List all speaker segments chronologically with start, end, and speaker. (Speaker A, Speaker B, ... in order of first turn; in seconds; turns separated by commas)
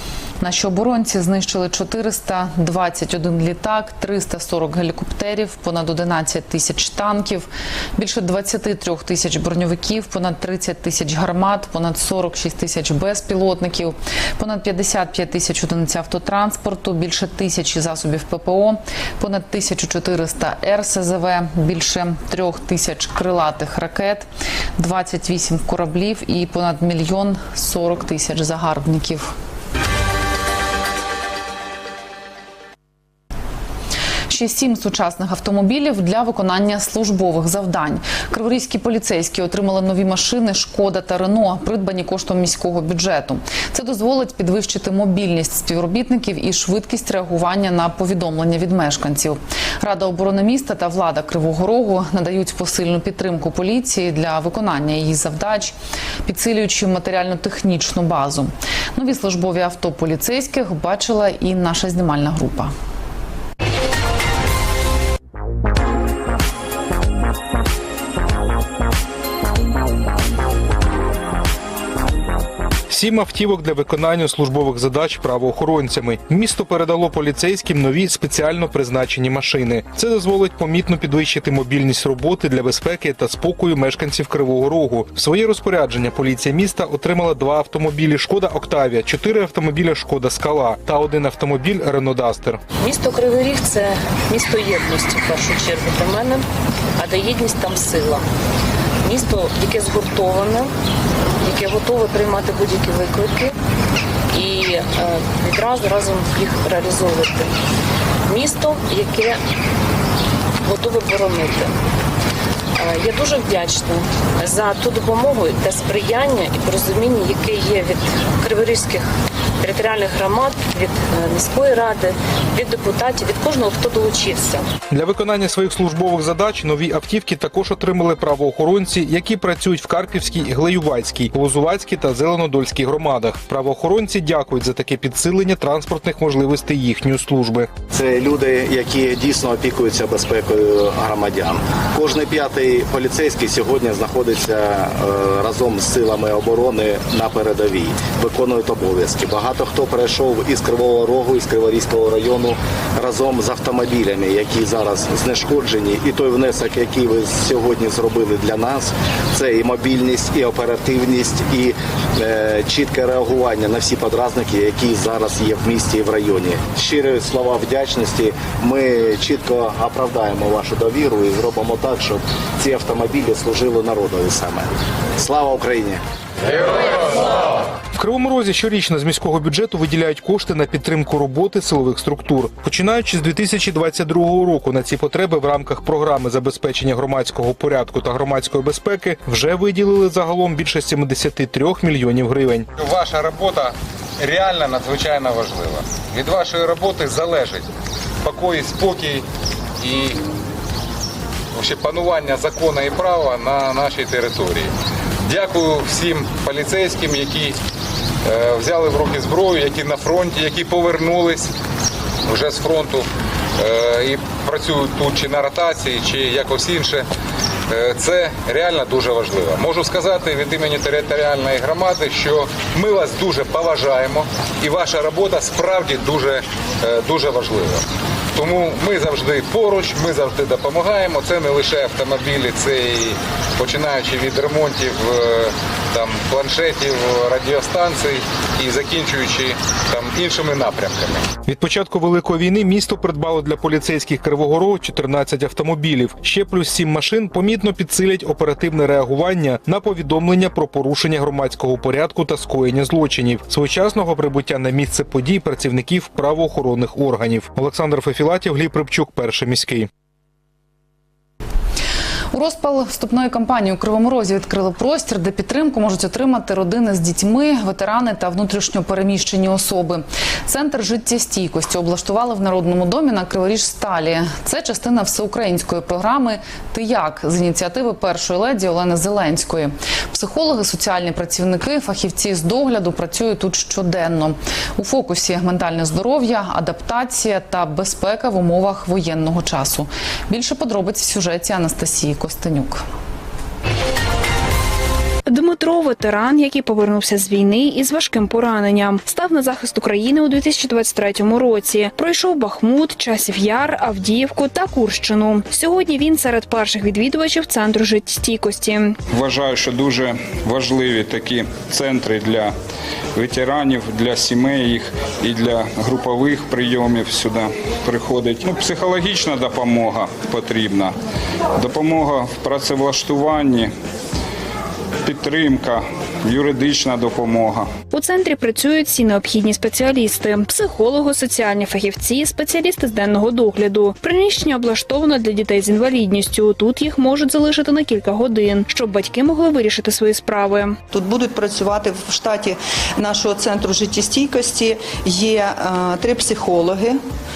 Speaker A: 0.4-29.3, Speaker A: 34.3-55.8, Speaker A: 56.3-62.7, Speaker B: 72.9-92.7, Speaker C: 92.8-96.5, Speaker C: 97.0-98.2, Speaker C: 99.0-100.7, Speaker C: 101.4-103.5, Speaker C: 104.3-107.5, Speaker C: 108.3-109.4, Speaker C: 110.6-111.7, Speaker C: 112.8-119.1, Speaker C: 119.6-124.7, Speaker B: 124.9-137.7, Speaker D: 137.9-176.0, Speaker B: 178.0-192.7, Speaker E: 192.8-197.7, Speaker E: 198.2-199.3, Speaker E: 199.8-200.2, Speaker E: 201.6-204.7, Speaker E: 205.2-207.6, Speaker E: 208.2-211.5, Speaker E: 212.2-217.1, Speaker E: 217.7-227.8, Speaker E: 228.3-241.3, Speaker B: 241.5-259.9, Speaker A: 262.3-292.8, Speaker F: 295.3-309.0, Speaker G: 309.1-312.5, Speaker G: 313.1-320.9, Speaker G: 321.6-323.7, Speaker G: 325.1-327.7, Speaker F: 327.9-340.8, Speaker H: 340.9-347.0